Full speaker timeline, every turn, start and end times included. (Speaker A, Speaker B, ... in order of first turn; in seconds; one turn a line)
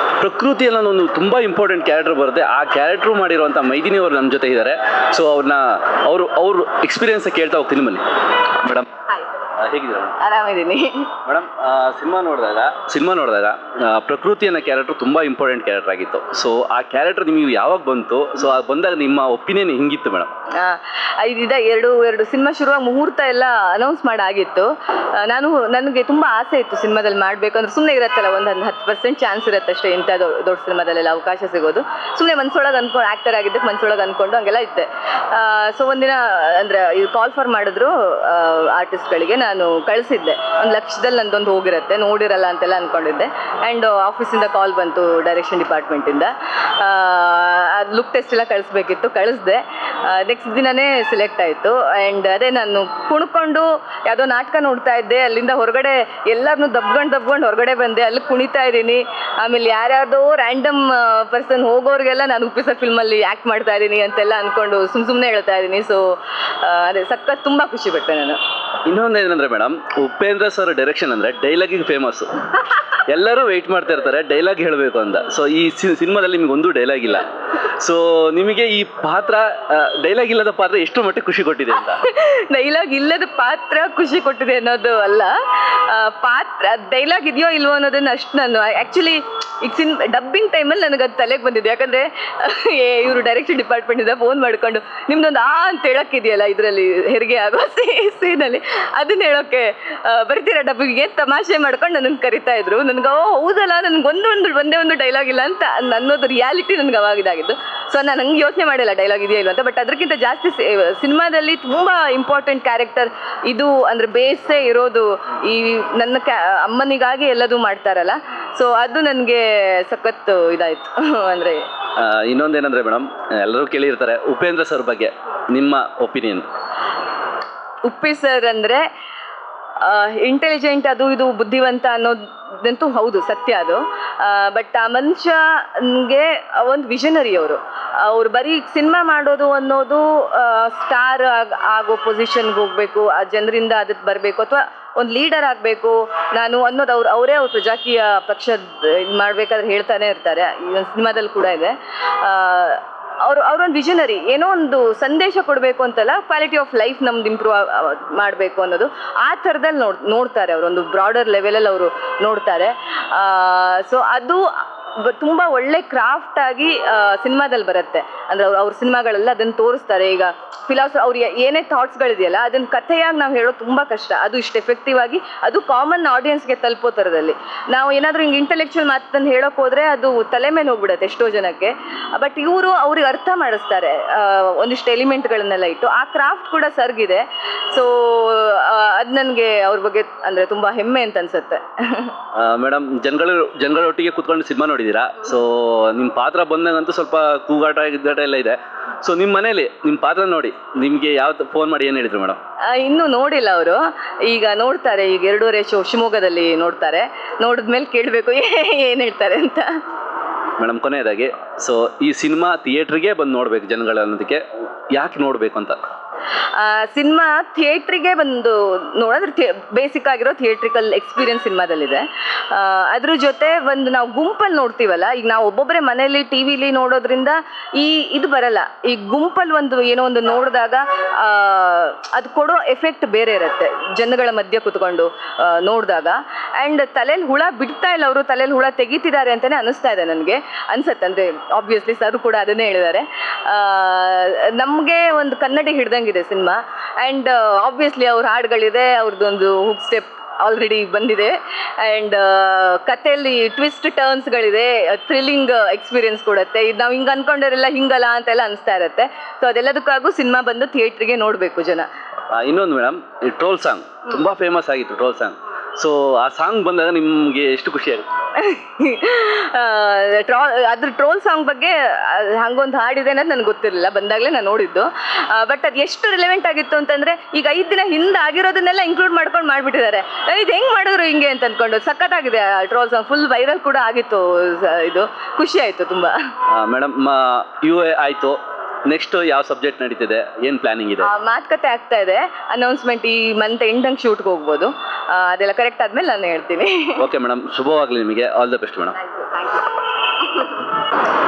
Speaker A: 0.2-9.0
Speaker A: 9.6-10.2
Speaker B: 10.2-11.1
Speaker A: 11.2-20.3
Speaker B: 20.6-68.4
Speaker A: 68.9-72.4
Speaker A: 73.0-82.0
Speaker B: 81.8-121.7
Speaker A: 122.0-126.5
Speaker B: 127.9-128.8
Speaker B: 129.8-192.1
Speaker A: 192.3-202.4
Speaker B: 202.7-209.8
Speaker A: 210.6-215.8
Speaker B: 216.6-261.9
Speaker A: 262.3-268.1
Speaker B: 268.4-286.2
Speaker A: 286.5-291.1
Speaker B: 291.0-297.0
Speaker A: 297.0-299.0
Speaker B: 299.0-300.7